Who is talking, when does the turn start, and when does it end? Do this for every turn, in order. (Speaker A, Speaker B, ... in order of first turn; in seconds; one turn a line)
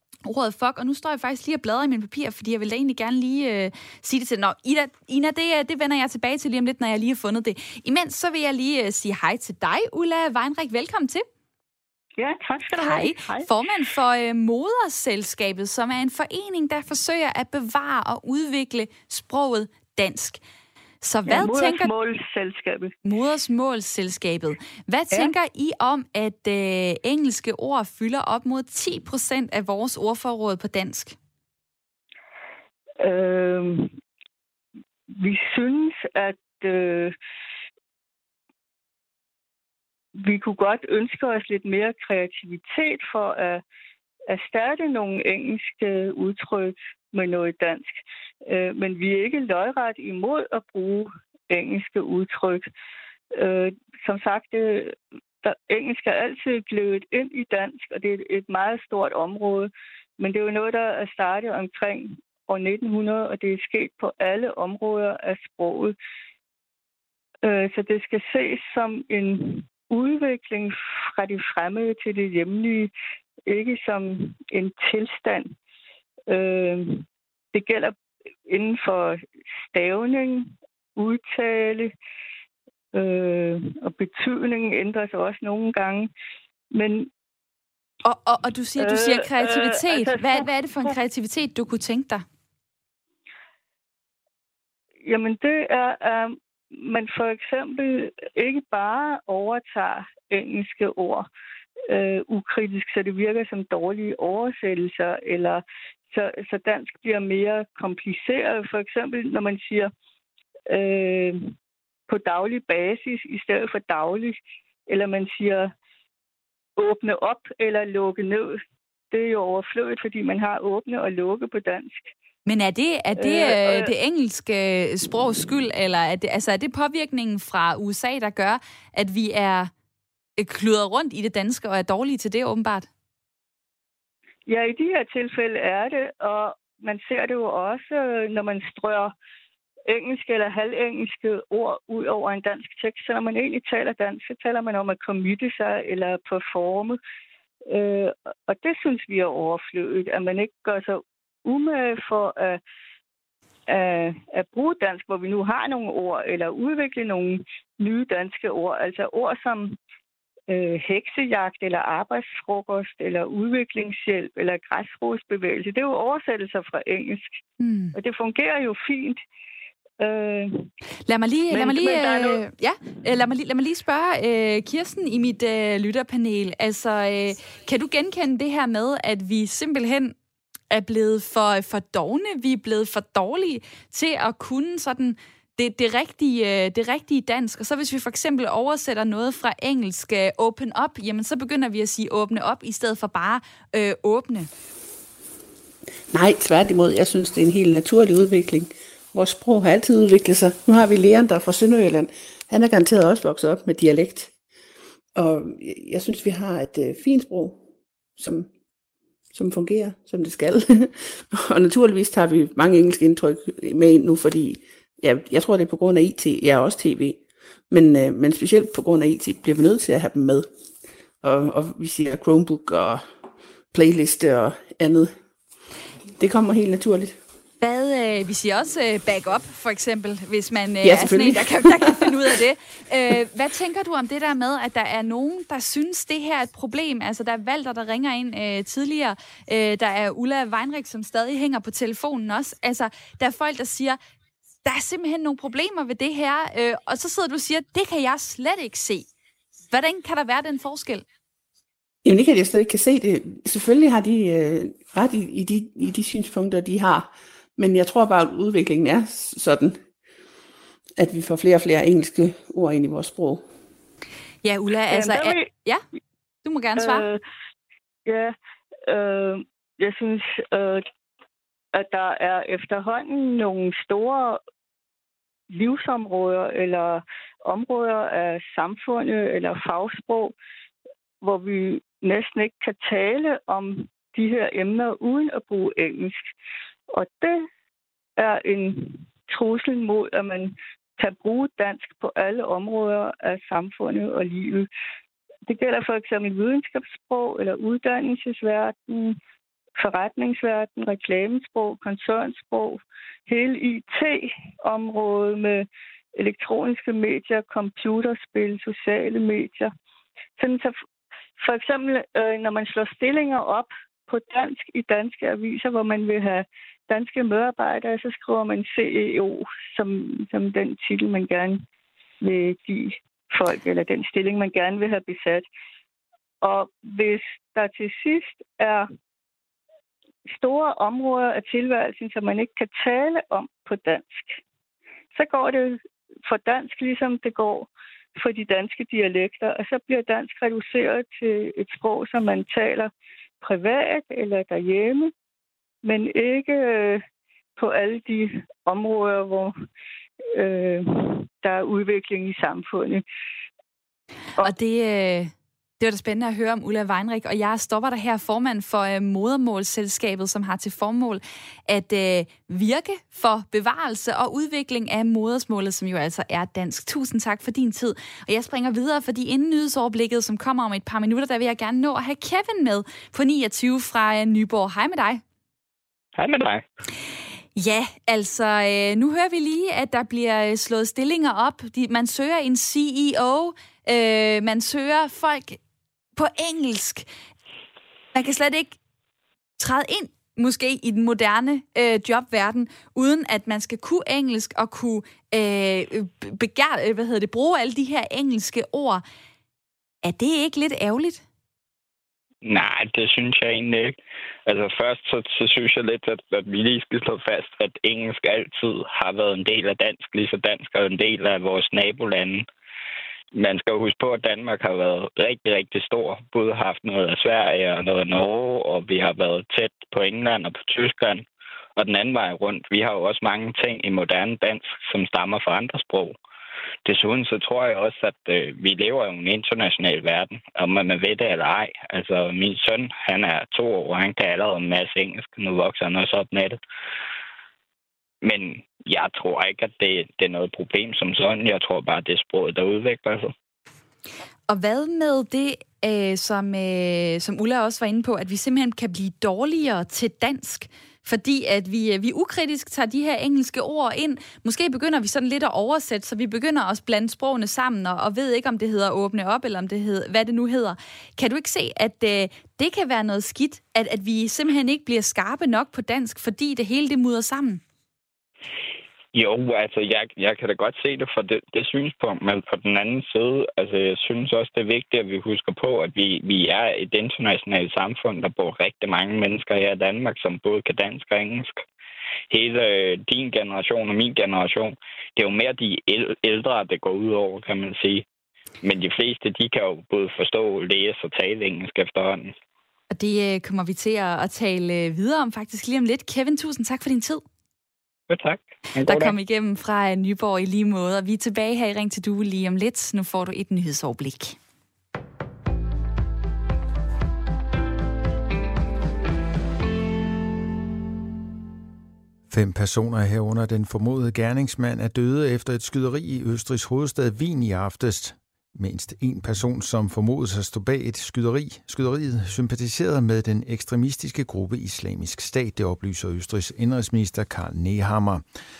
Speaker A: 0.2-11.2
Speaker B: 12.2-13.5
Speaker A: 12.7-20.4
Speaker A: 21.0-21.9
Speaker B: 21.3-22.9
Speaker A: 23.0-31.2
Speaker B: 33.0-33.9
Speaker B: 35.1-37.1
Speaker B: 40.2-43.6
Speaker B: 44.3-52.7
Speaker B: 53.4-66.0
Speaker B: 67.4-72.9
Speaker B: 73.5-75.5
Speaker B: 76.3-78.0
Speaker B: 78.5-81.9
Speaker B: 82.9-86.1
Speaker B: 86.7-87.1
Speaker A: 88.0-92.2
Speaker B: 88.8-90.5
Speaker B: 95.0-101.3
Speaker B: 101.9-109.9
Speaker B: 110.7-111.5
Speaker B: 112.1-115.7
Speaker B: 116.8-122.1
Speaker A: 122.5-129.7
Speaker B: 123.2-123.9
Speaker A: 130.4-132.9
Speaker B: 134.5-139.1
Speaker B: 139.9-147.0
Speaker B: 147.7-152.6
Speaker B: 153.7-159.8
Speaker B: 160.5-167.3
Speaker A: 167.6-167.9
Speaker B: 167.9-169.2
Speaker B: 170.0-170.7
Speaker A: 171.1-180.1
Speaker B: 171.5-172.3
Speaker A: 180.7-194.5
Speaker C: 196.1-204.3
Speaker C: 205.2-207.6
Speaker C: 208.2-208.5
Speaker C: 209.3-220.5
Speaker C: 221.2-223.1
Speaker C: 223.7-225.1
Speaker C: 226.2-227.2
Speaker A: 227.6-244.0
Speaker C: 230.8-232.1
Speaker A: 244.7-249.1
Speaker A: 249.7-251.1
Speaker C: 252.0-259.8
Speaker C: 261.0-263.4
Speaker A: 264.4-265.8
Speaker B: 264.9-265.5
Speaker A: 266.4-267.1
Speaker B: 266.8-267.2
Speaker B: 268.1-268.3
Speaker B: 268.9-270.9
Speaker B: 271.7-274.4
Speaker B: 275.5-280.4
Speaker B: 281.2-286.3
Speaker B: 286.9-287.5
Speaker B: 288.2-294.7
Speaker B: 295.5-299.2
Speaker B: 299.8-309.7
Speaker B: 310.4-310.8
Speaker B: 311.4-321.6
Speaker B: 322.2-325.5
Speaker B: 326.4-328.9
Speaker B: 330.3-334.4
Speaker B: 335.1-342.9
Speaker B: 343.4-345.1
Speaker B: 345.8-347.0
Speaker B: 347.6-349.5
Speaker B: 350.3-353.1
Speaker A: 354.4-375.2
Speaker D: 376.2-376.7
Speaker A: 377.6-385.6
Speaker A: 386.2-387.1
Speaker A: 388.1-388.8
Speaker A: 389.6-399.0
Speaker A: 400.0-401.2
Speaker D: 402.4-412.5
Speaker D: 413.3-426.2
Speaker D: 426.9-436.6
Speaker D: 438.2-443.3
Speaker A: 444.5-467.6
Speaker D: 469.1-481.6
Speaker D: 482.3-488.1
Speaker D: 488.6-492.4
Speaker A: 492.9-497.2
Speaker D: 498.1-499.2
Speaker A: 498.8-504.4
Speaker E: 512.3-528.2